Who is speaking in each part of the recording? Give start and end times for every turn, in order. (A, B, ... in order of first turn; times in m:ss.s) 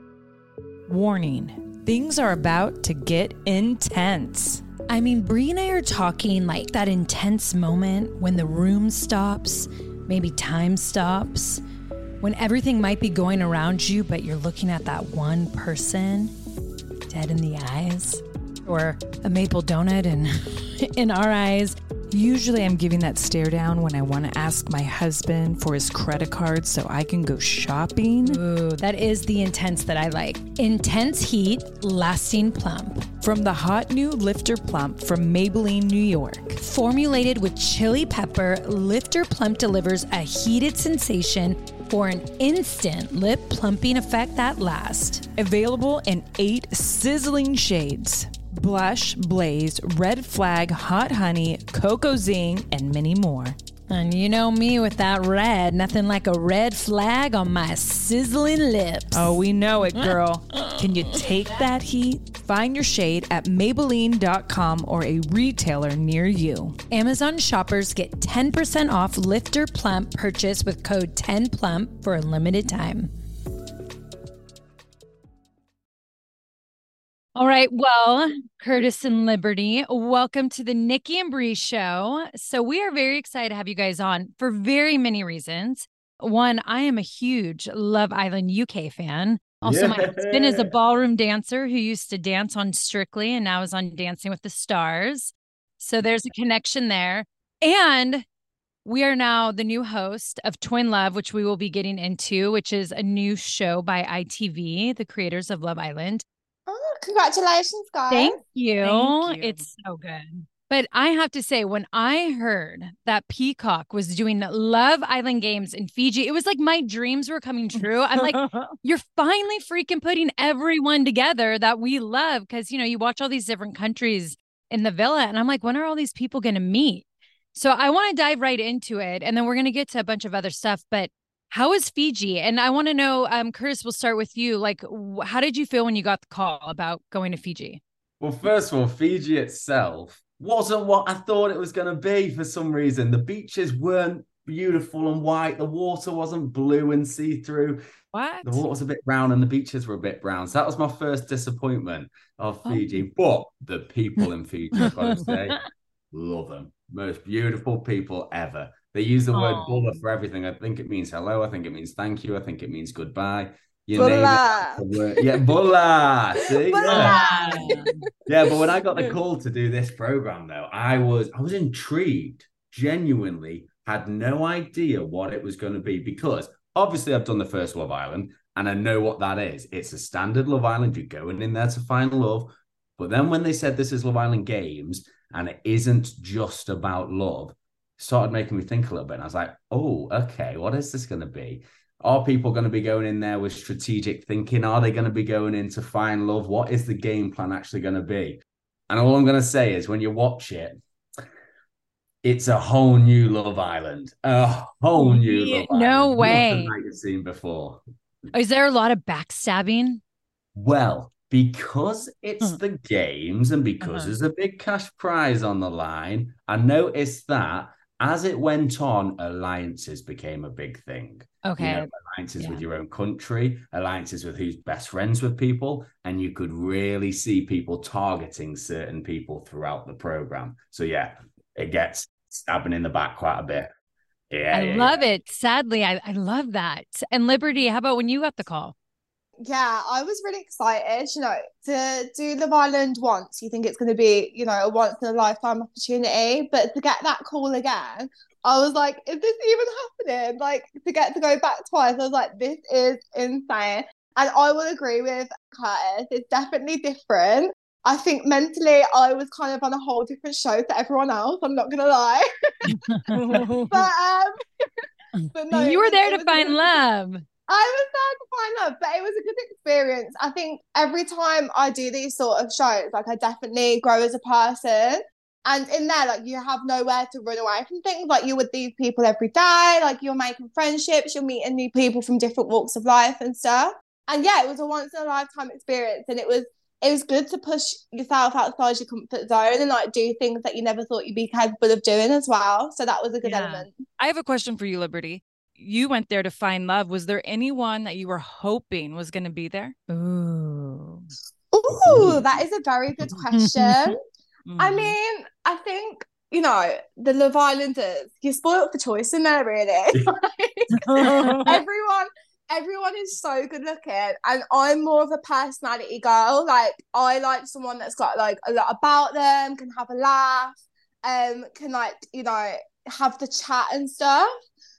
0:00.9-0:04.6 A
0:04.9-0:11.6 B
0:12.2-0:16.3 B
0:17.1-0:21.8 B
0:22.1-0:28.4 A
0:28.2-0:33.0 B
0:33.2-0:36.6 A
0:36.6-0:45.2 B
0:45.4-0:53.6 A
0:53.9-0:59.4 B
0:59.1-1:06.8 A
0:59.9-1:00.8 B
1:06.9-1:13.1 B
1:17.4-1:38.2 B
1:29.6-1:30.7 C
1:38.8-1:46.2 B
1:46.7-1:48.4 D
1:48.1-2:17.8 B
1:48.8-1:49.6 A
1:57.8-1:58.8 A
2:18.2-2:27.8 C
2:28.1-2:28.6 A
2:28.4-2:35.6 C
2:34.8-2:35.3 B
2:36.1-2:47.2 C
2:39.3-2:40.0 B
2:43.9-2:45.5 D
2:46.4-2:47.9 D
2:46.9-2:47.8 B
2:46.9-2:47.9 A
2:48.3-3:20.8 C
3:22.2-3:27.8 C
3:25.0-3:26.7 B
3:28.3-3:30.0 B
3:30.5-3:53.7 C
3:33.8-3:34.1 B
3:41.4-3:42.6 B
3:54.3-3:55.0 C
3:54.5-3:58.7 B
3:59.4-4:24.4 D
4:22.7-4:23.1 B
4:23.1-4:23.9 A
4:25.2-4:27.2 B
4:25.3-4:26.6 D
4:27.5-4:53.7 D
4:53.2-4:53.7 B
4:54.0-4:59.7 A
4:59.9-5:01.1 B
5:01.5-5:03.9 D
5:01.7-5:02.4 C
5:03.3-5:03.9 B
5:04.4-5:05.0 A
5:04.6-5:24.3 D
5:10.8-5:11.0 B
5:10.9-5:11.6 A